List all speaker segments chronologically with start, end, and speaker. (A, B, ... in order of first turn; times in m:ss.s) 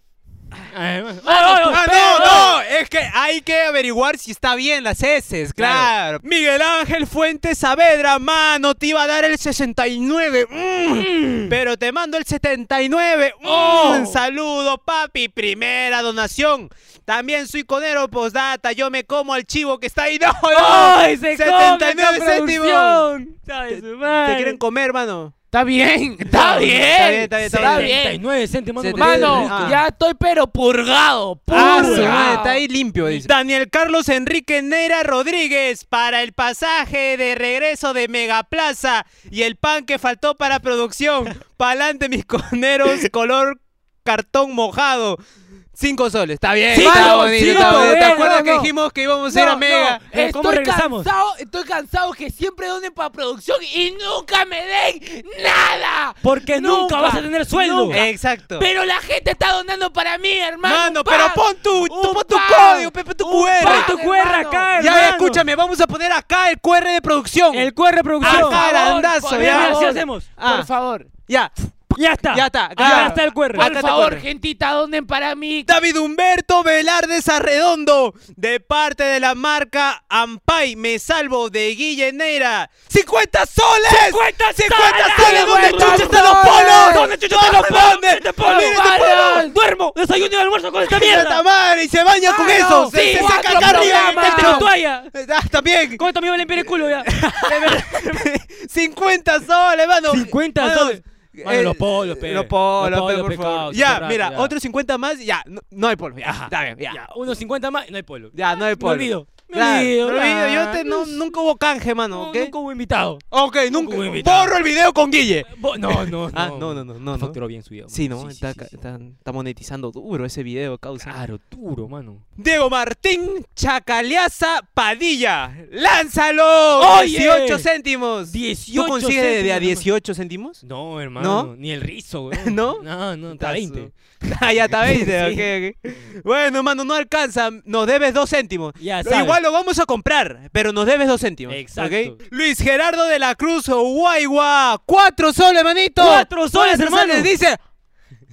0:00.7-0:02.6 A
0:01.2-0:23.0 B
0:05.6-0:05.9 A
0:11.0-0:11.6 A
0:13.4-0:14.2 A
0:20.5-0:24.6 A
0:23.7-0:25.3 B
0:25.5-0:28.2 C
0:26.3-0:26.8 A
0:26.8-0:28.0 B
0:27.4-0:29.8 A
0:28.8-0:29.8 B
0:29.0-0:32.6 C
0:31.5-0:32.4 A
0:31.5-0:45.2 B
0:45.8-0:50.0 B
0:46.7-0:48.7 C
0:46.7-0:48.5 A
0:49.3-1:05.0 C
0:50.1-0:51.1 A
0:56.2-0:58.0 A
0:57.9-0:58.7 B
1:00.6-1:03.9 B
1:03.6-1:05.4 A
1:04.8-1:09.8 B
1:07.5-1:08.7 A
1:08.2-1:11.1 C
1:09.3-1:10.3 A
1:10.4-1:10.7 B
1:11.3-1:11.5 B
1:11.9-1:13.7 A
1:12.2-1:14.2 B
1:12.8-1:15.7 C
1:15.7-1:29.5 B
1:23.9-1:31.4 A
1:25.1-1:27.1 C
1:28.4-1:29.5 C
1:30.9-1:36.0 B
1:32.2-1:34.7 C
1:32.9-1:35.1 A
1:36.0-1:38.2 A
1:37.1-1:47.0 B
1:40.1-1:44.5 A
1:46.2-1:51.2 A
1:48.3-1:52.5 B
1:52.1-1:54.6 A
1:53.3-1:57.4 B
1:55.5-1:58.7 A
1:57.9-2:01.2 B
2:01.0-2:02.2 A
2:02.4-2:10.6 B
2:06.8-2:07.7 A
2:08.3-2:09.9 A
2:10.6-2:13.9 A
2:11.2-2:11.5 B
2:12.3-2:27.6 B
2:14.8-2:15.5 A
2:18.8-2:19.4 A
2:21.5-2:22.2 A
2:26.0-2:27.3 A